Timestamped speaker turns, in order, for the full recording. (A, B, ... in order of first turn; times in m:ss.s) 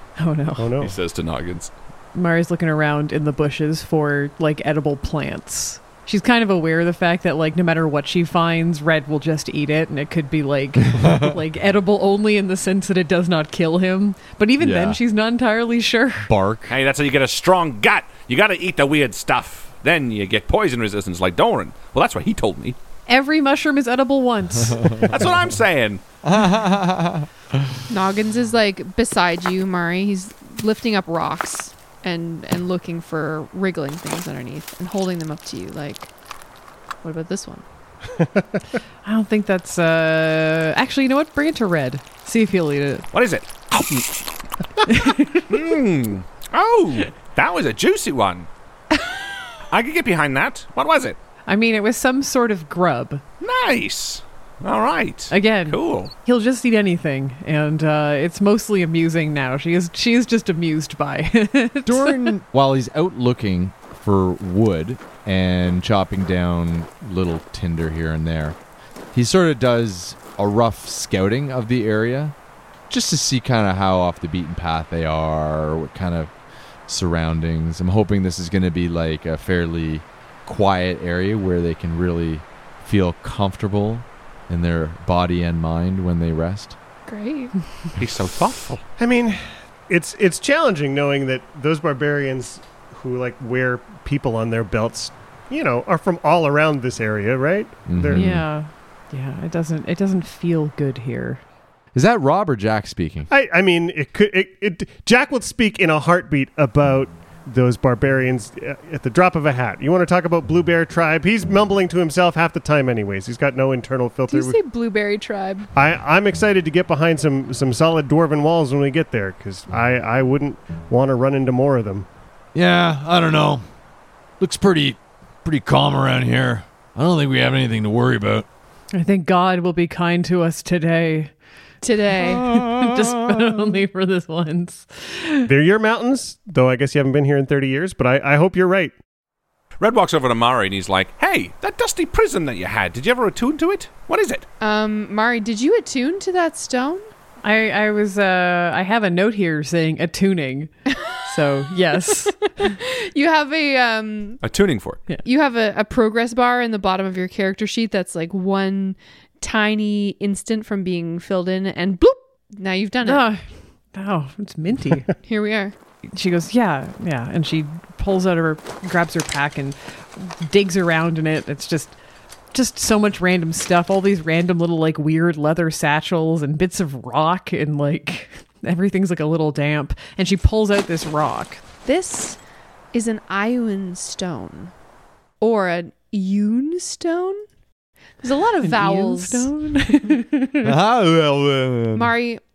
0:00.2-0:00.7 A
0:00.6-0:01.0 B
0:00.8-0:01.7 C
0:02.1-0:16.3 A
0:14.6-0:15.0 D
0:16.2-0:16.7 D
0:16.7-0:22.8 C
0:23.1-0:25.1 A
0:25.1-0:26.0 C
0:26.2-0:27.3 D
0:27.9-0:36.1 E
0:37.0-0:37.6 E
0:38.2-0:38.6 B
0:39.0-0:43.1 A
0:43.1-0:44.3 C
0:44.9-0:45.5 A
0:45.5-0:48.5 C
0:49.7-0:51.2 C
0:51.5-0:53.2 A
0:53.4-0:56.1 C
0:55.3-1:02.4 A
1:01.9-1:08.6 D
1:09.1-1:12.4 D
1:12.9-1:16.3 D
1:16.9-1:26.8 D
1:27.1-1:27.6 E
1:28.0-1:28.8 C
1:29.0-1:38.3 B
1:37.9-1:38.5 D
1:38.1-1:41.4 A
1:41.9-1:43.3 D
1:43.3-1:54.6 B
1:54.3-1:55.7 E
1:55.8-2:02.1 B
2:02.5-2:03.6 F
2:04.4-2:08.5 F
2:08.9-2:11.3 A
2:11.8-2:12.5 E
2:12.4-2:12.7 D
2:12.5-2:15.5 A
2:15.5-2:18.9 B
2:19.8-2:24.4 C
2:24.6-2:27.1 E
2:27.4-2:32.6 A
2:32.6-2:34.4 E
2:34.4-2:35.0 C
2:35.2-2:43.2 E
2:43.0-2:45.1 A
2:45.2-2:45.8 E
2:46.1-2:52.0 A
2:52.5-3:01.6 A
3:01.8-3:02.4 E
3:02.9-3:04.7 E
3:05.4-3:07.4 E
3:08.2-3:09.5 E
3:08.6-3:10.7 A
3:10.6-3:12.1 D
3:11.9-3:12.4 E